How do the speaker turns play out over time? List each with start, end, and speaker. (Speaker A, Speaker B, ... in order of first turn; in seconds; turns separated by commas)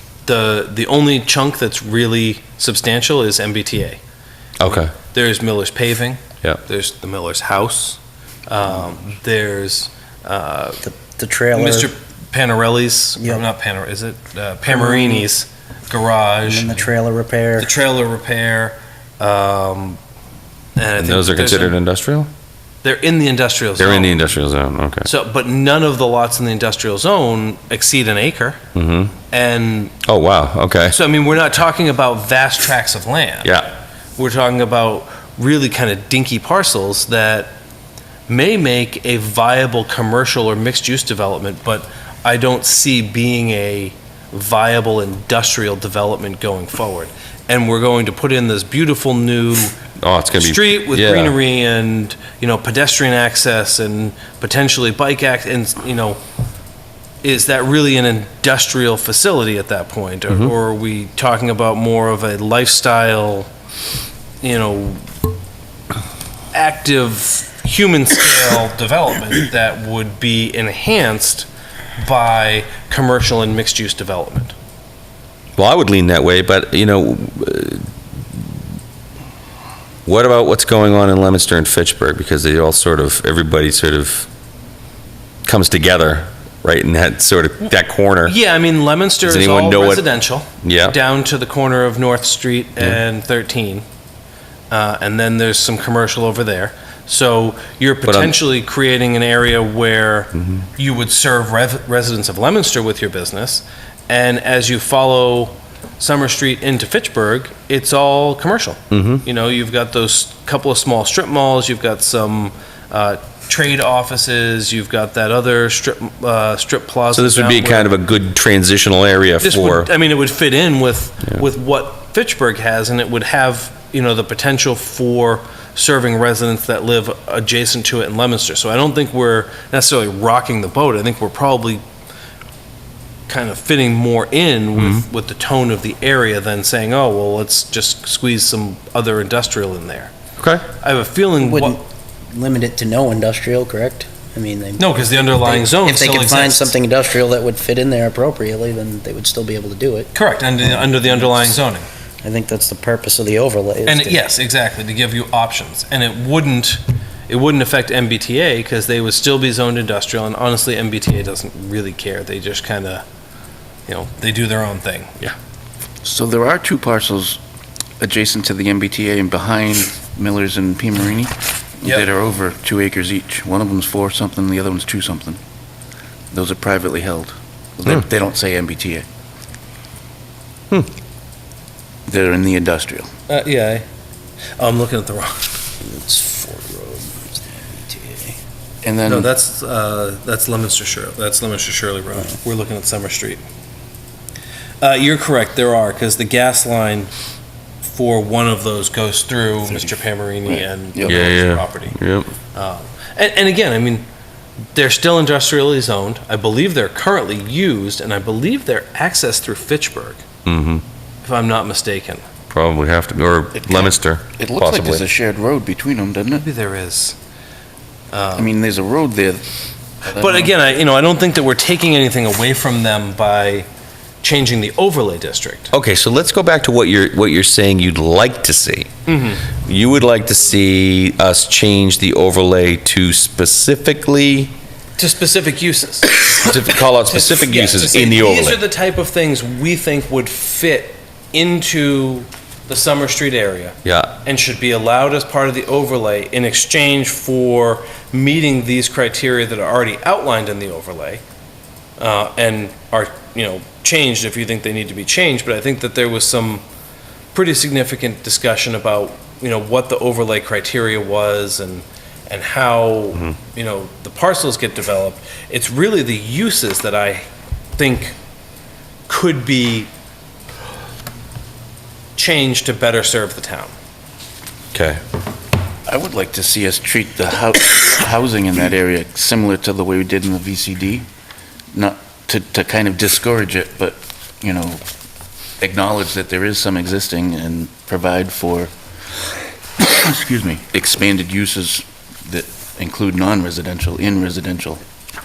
Speaker A: 0.2-4.0, Speaker B: 4.6-4.9, Speaker A: 4.6-10.8, Speaker C: 10.8-11.9, Speaker A: 11.5-16.9, Speaker C: 13.2-13.4, Speaker C: 14.7-15.2, Speaker C: 16.4-17.7, Speaker A: 17.6-20.0, Speaker A: 20.8-21.8, Speaker B: 21.0-22.3, Speaker A: 22.8-24.2, Speaker B: 23.8-25.1, Speaker A: 25.0-28.6, Speaker B: 28.7-29.1, Speaker A: 29.3-29.9, Speaker B: 30.1-30.9, Speaker A: 30.9-33.6, Speaker A: 34.2-37.5, Speaker A: 38.3-49.8, Speaker B: 50.0-51.4, Speaker A: 50.4-56.2, Speaker A: 57.2-63.5, Speaker A: 64.4-65.0, Speaker A: 66.5-74.5, Speaker B: 75.6-77.8, Speaker B: 80.0-84.3, Speaker B: 85.4-88.3, Speaker A: 88.2-93.8, Speaker B: 89.2-90.0, Speaker B: 90.6-91.0, Speaker A: 94.7-117.9, Speaker B: 98.0-98.3, Speaker B: 100.4-100.6, Speaker B: 108.9-109.2, Speaker B: 117.1-119.9, Speaker A: 119.4-131.8, Speaker A: 133.3-140.1, Speaker B: 134.8-135.0, Speaker B: 140.4-140.7, Speaker A: 140.8-141.8, Speaker C: 141.4-151.5, Speaker A: 144.8-146.7, Speaker A: 150.1-151.9, Speaker C: 152.2-154.2, Speaker A: 153.8-163.0, Speaker A: 163.9-165.3, Speaker D: 166.0-167.4, Speaker D: 168.0-175.4, Speaker D: 176.3-179.1, Speaker D: 182.1-183.1, Speaker A: 183.3-183.8, Speaker A: 184.6-185.5, Speaker C: 185.8-188.4, Speaker D: 188.8-189.3, Speaker A: 189.1-193.4, Speaker A: 194.8-197.1, Speaker A: 197.8-202.0, Speaker D: 200.4-201.3, Speaker B: 201.1-202.3, Speaker A: 202.5-204.0, Speaker A: 204.7-210.2, Speaker B: 210.4-210.8, Speaker A: 211.2-212.2, Speaker B: 212.5-215.0, Speaker D: 213.5-216.4, Speaker A: 216.3-217.2, Speaker A: 218.1-218.5, Speaker D: 218.3-219.4, Speaker D: 220.0-220.5, Speaker A: 220.1-223.7, Speaker A: 224.2-225.7, Speaker B: 225.7-228.9, Speaker A: 229.1-229.4, Speaker B: 229.6-234.5, Speaker A: 235.0-251.2, Speaker B: 236.2-238.6, Speaker B: 243.8-244.1, Speaker A: 252.0-256.6, Speaker A: 257.3-268.1, Speaker A: 269.1-269.9, Speaker A: 272.1-273.7, Speaker B: 274.7-275.0, Speaker D: 275.9-281.1, Speaker D: 281.7-284.8, Speaker D: 285.6-288.7, Speaker D: 289.8-294.8